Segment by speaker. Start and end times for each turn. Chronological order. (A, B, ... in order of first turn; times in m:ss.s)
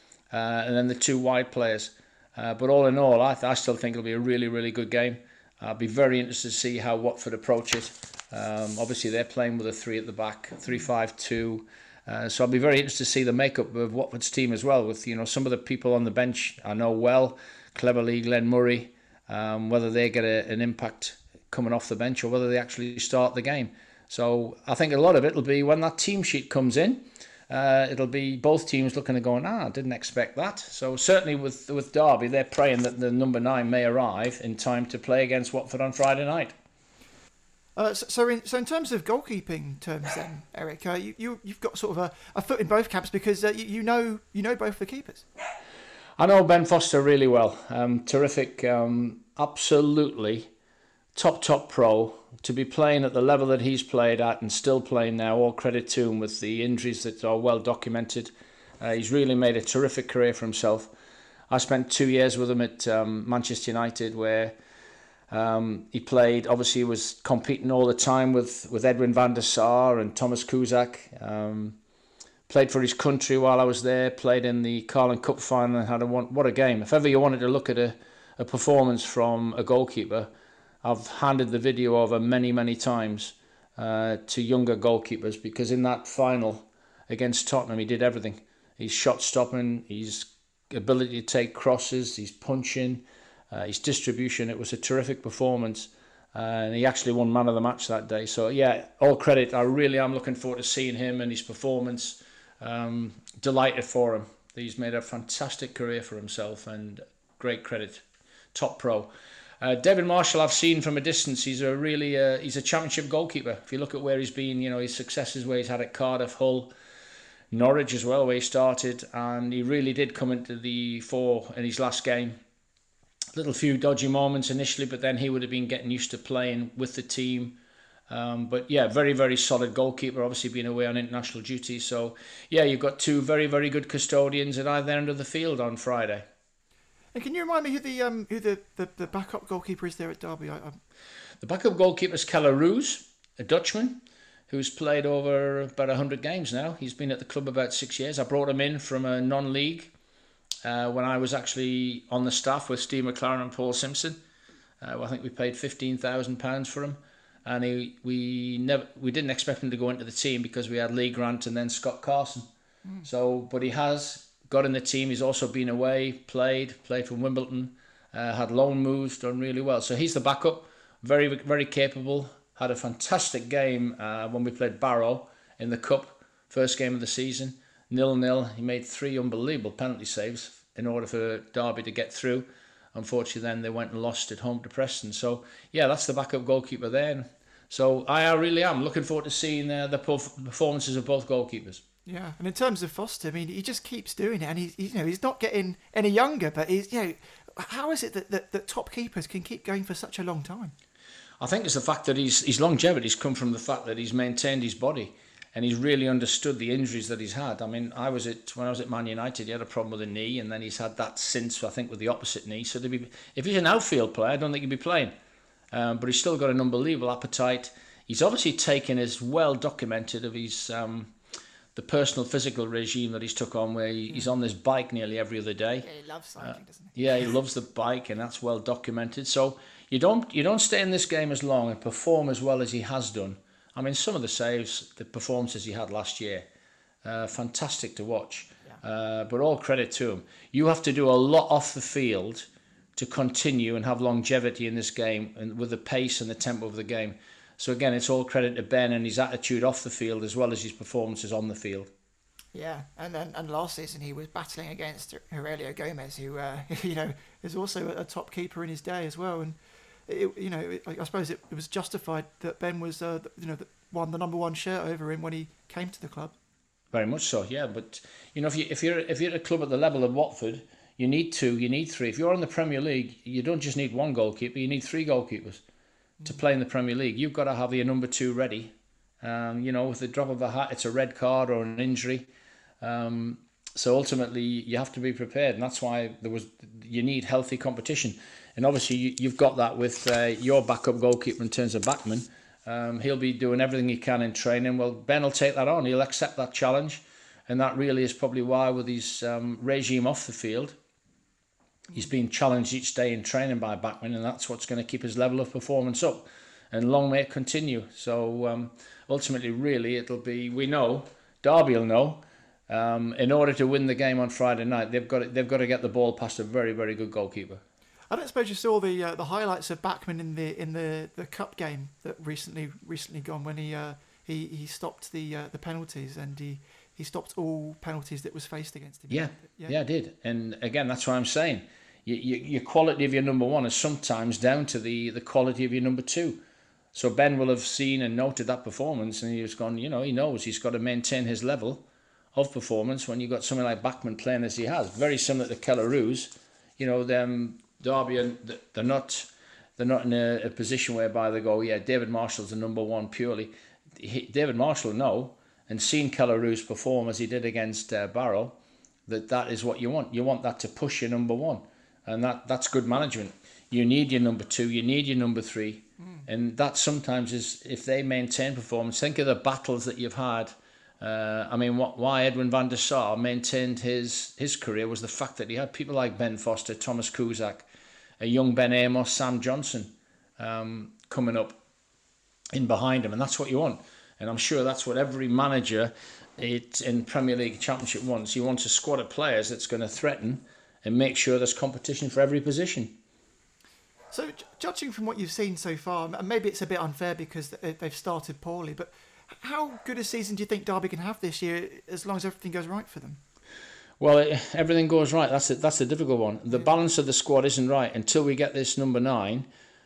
0:00.3-0:36.5 A
0:37.8-0:45.2 B
0:46.2-0:50.5 A
0:51.1-1:00.9 A
1:01.5-1:04.6 A
1:05.3-1:11.8 A
1:12.5-1:20.3 A
1:20.8-1:48.0 A
1:48.5-1:56.7 A
1:57.5-2:02.4 A
2:03.3-2:07.6 A
2:08.1-2:16.2 A
2:17.1-2:20.8 B
2:21.4-2:29.9 A
2:30.6-2:34.2 A
2:34.8-2:42.5 A
2:43.0-3:11.8 A
3:12.1-3:20.7 B
3:21.4-3:35.1 A
3:35.7-3:41.1 A
3:41.8-3:45.9 A
3:45.8-3:46.9 B
3:46.4-3:56.5 A
3:57.0-4:11.9 A
4:12.5-4:26.3 B
4:26.9-4:35.6 A
4:36.2-4:42.3 A
4:42.8-5:00.8 A
5:01.9-5:17.6 A
5:18.1-5:29.8 B
5:29.1-5:36.4 A
5:36.9-6:17.7 A
6:18.2-6:21.6 A
6:22.5-6:33.0 A
6:34.1-6:43.2 B
6:44.0-6:49.5 A